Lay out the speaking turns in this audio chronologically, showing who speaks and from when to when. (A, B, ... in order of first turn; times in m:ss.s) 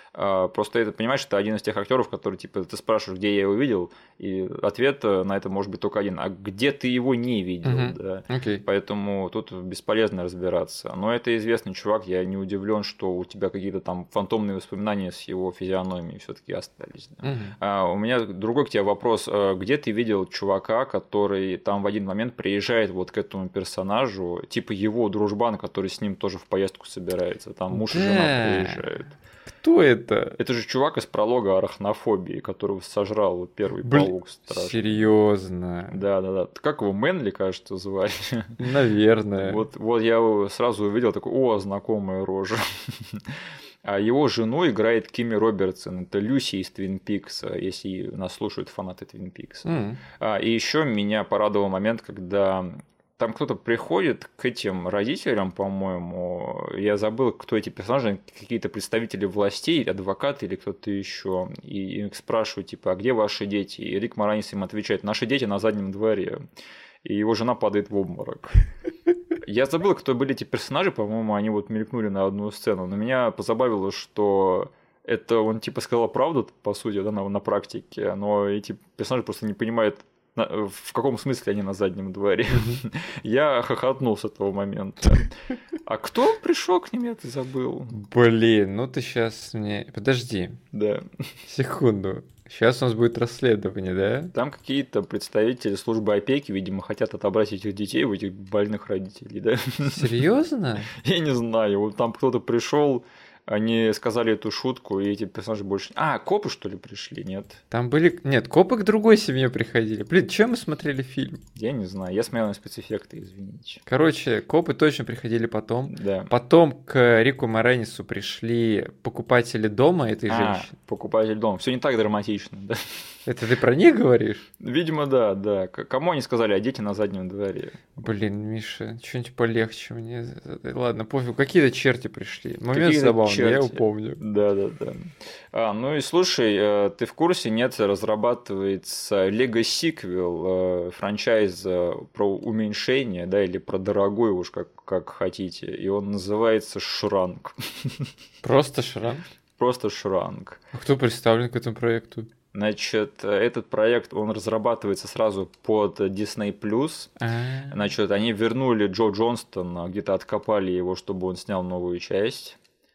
0:00.2-0:29.2 A
0:07.6-0:08.6 B
0:17.2-0:17.5 B
0:27.7-0:28.8 B
0:29.6-0:30.4 B
0:30.4-0:35.1 A
0:33.8-0:36.0 B
0:35.9-0:38.6 A
0:38.6-0:39.6 B
0:39.4-0:43.3 A
0:43.8-1:06.4 A
0:49.7-0:50.0 B
1:07.0-1:08.5 A
1:09.4-1:28.0 A
1:22.6-1:22.8 B
1:27.9-1:30.6 B
1:30.7-1:31.0 A
1:31.5-1:34.3 B
1:34.3-1:40.1 A
1:39.9-1:40.9 B
1:41.0-1:47.6 A
1:47.7-1:51.4 B
1:51.6-1:53.8 A
1:53.9-2:00.7 B
1:55.9-1:56.3 A
2:00.3-2:03.0 A
2:03.3-2:04.5 B
2:04.6-2:08.0 A
2:08.0-2:14.2 B
2:12.7-2:15.0 A
2:15.5-2:28.1 A
2:28.4-2:29.2 B
2:29.6-2:30.6 A
2:30.7-2:32.3 B
2:32.5-2:37.1 A
2:37.2-2:37.8 B
2:37.7-2:42.6 A